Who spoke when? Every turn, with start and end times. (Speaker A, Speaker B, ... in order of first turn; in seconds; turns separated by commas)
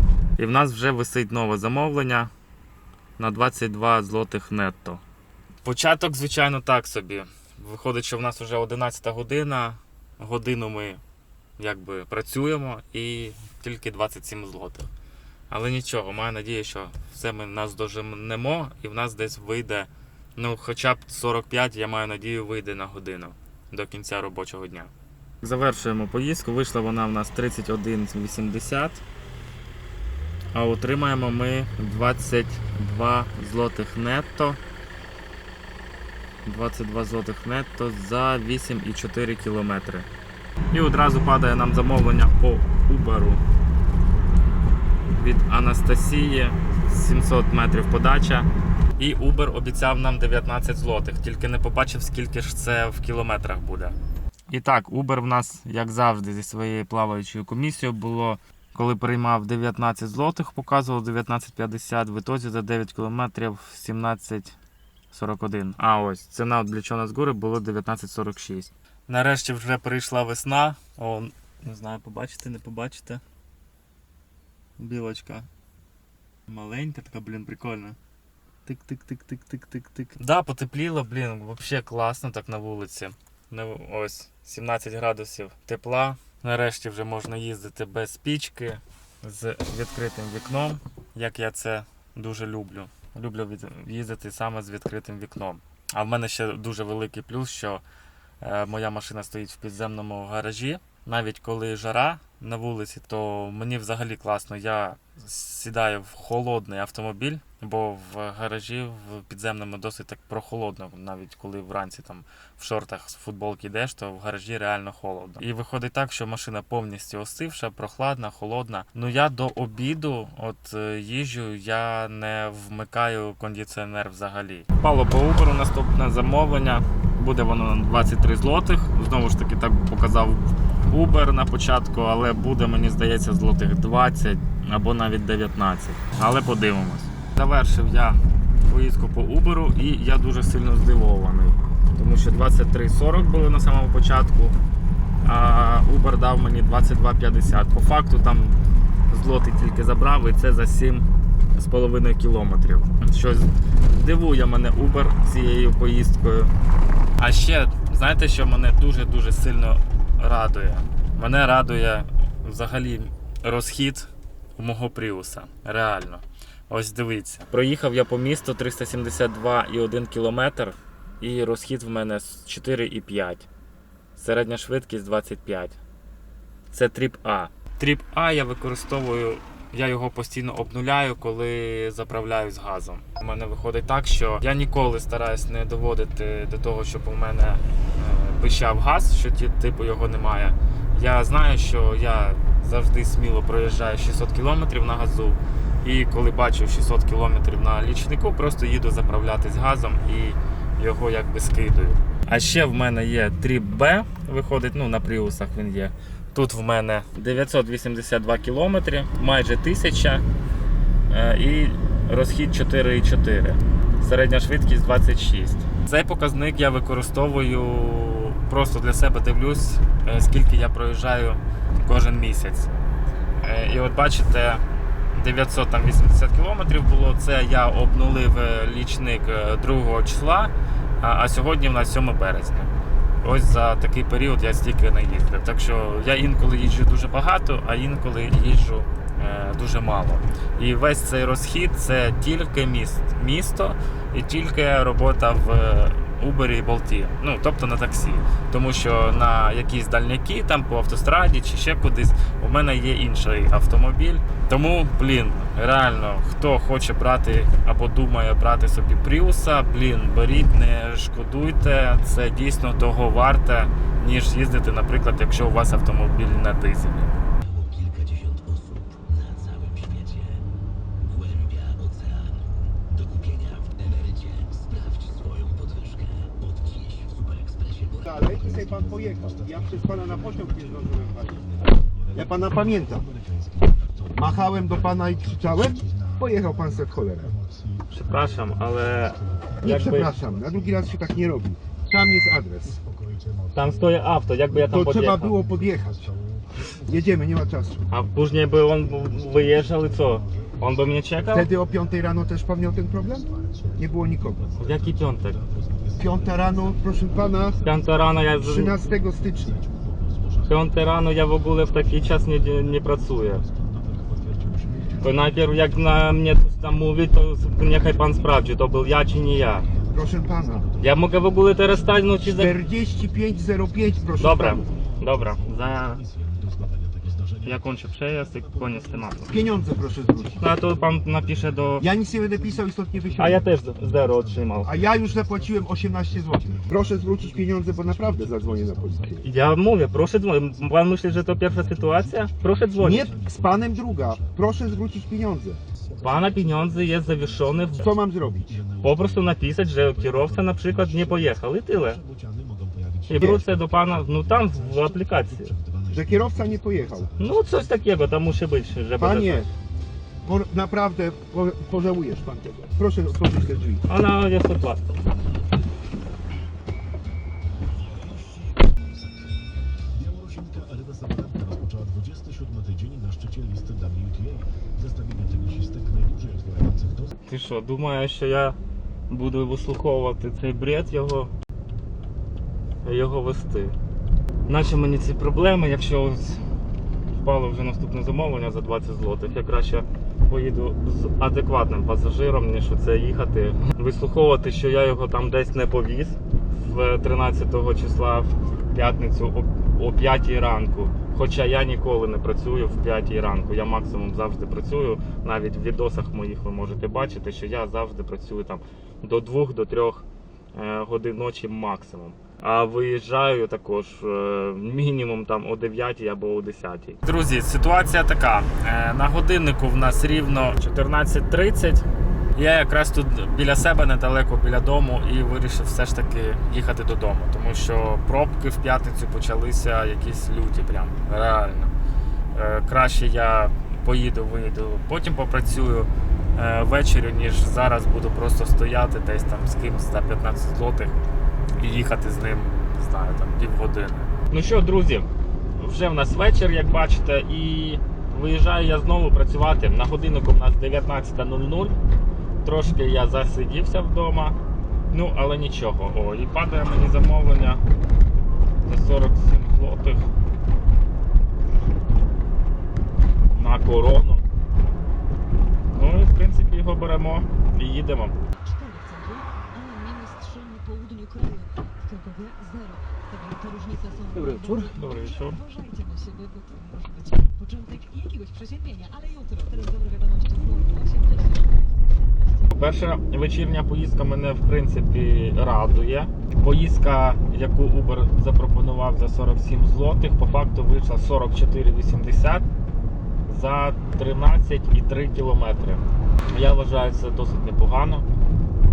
Speaker A: 0.4-2.3, Speaker A: 3.2-5.0, Speaker A: 5.6-11.0, Speaker A: 11.6-14.9, Speaker A: 15.5-24.9, Speaker A: 25.4-29.0, Speaker A: 30.5-34.6, Speaker A: 36.4-40.1, Speaker A: 40.7-43.4, Speaker A: 45.1-54.0, Speaker A: 54.5-64.5, Speaker A: 65.1-73.2, Speaker A: 74.8-75.5, Speaker A: 76.5-78.0, Speaker A: 78.7-97.8, Speaker A: 98.4-144.6, Speaker A: 145.2-148.6, Speaker A: 149.1-151.0, Speaker A: 151.6-156.5, Speaker A: 157.2-173.5, Speaker A: 174.2-175.8, Speaker A: 176.7-210.2, Speaker A: 211.1-222.7, Speaker A: 223.4-232.7, Speaker A: 233.2-267.1, Speaker B: 267.8-270.2, Speaker B: 271.2-272.2, Speaker B: 273.3-276.3, Speaker B: 276.9-277.5, Speaker C: 278.0-281.4, Speaker B: 278.4-279.7, Speaker C: 282.1-283.1, Speaker C: 284.1-287.4, Speaker B: 285.0-285.8, Speaker A: 287.9-290.1, Speaker C: 289.6-292.8, Speaker A: 293.5-295.4, Speaker C: 294.6-296.1, Speaker C: 296.8-297.8, Speaker A: 297.9-301.5, Speaker C: 301.3-304.5, Speaker A: 304.6-305.4, Speaker B: 305.3-306.1, Speaker C: 306.0-307.6, Speaker B: 307.4-308.0, Speaker A: 307.6-308.8, Speaker C: 308.4-309.6, Speaker A: 310.5-313.4, Speaker A: 315.0-319.7, Speaker C: 319.9-320.7, Speaker A: 320.8-322.5, Speaker C: 322.2-324.6, Speaker A: 324.2-326.0, Speaker B: 325.2-325.8, Speaker A: 327.4-329.3, Speaker C: 329.3-330.5, Speaker A: 330.4-331.9, Speaker C: 331.8-333.5, Speaker A: 333.1-334.7, Speaker B: 333.1-339.1, Speaker C: 334.6-339.2, Speaker A: 339.2-343.1, Speaker B: 341.3-343.4, Speaker C: 342.8-345.6, Speaker B: 344.0-344.3, Speaker A: 346.0-347.9, Speaker C: 347.8-348.6, Speaker A: 348.8-352.0, Speaker B: 348.9-349.2, Speaker B: 349.8-351.1, Speaker B: 353.0-355.1, Speaker A: 353.1-355.6, Speaker C: 353.2-353.4, Speaker C: 355.9-357.1, Speaker A: 357.2-359.5, Speaker C: 359.0-359.5, Speaker C: 360.2-363.8, Speaker A: 363.9-364.8, Speaker B: 370.4-374.2, Speaker B: 374.9-375.9, Speaker A: 377.2-378.6, Speaker A: 379.1-381.3, Speaker A: 382.8-383.8, Speaker A: 384.5-386.4, Speaker A: 387.1-421.8, Speaker A: 422.4-431.7, Speaker A: 432.3-441.0, Speaker A: 441.6-445.1, Speaker A: 445.6-451.8, Speaker A: 452.4-454.4, Speaker A: 454.9-457.6, Speaker A: 458.6-460.1, Speaker A: 463.3-464.2, Speaker A: 465.7-468.2, Speaker D: 468.5-474.6, Speaker A: 474.1-475.4, Speaker D: 475.3-481.6, Speaker A: 482.5-492.4, Speaker A: 493.2-498.1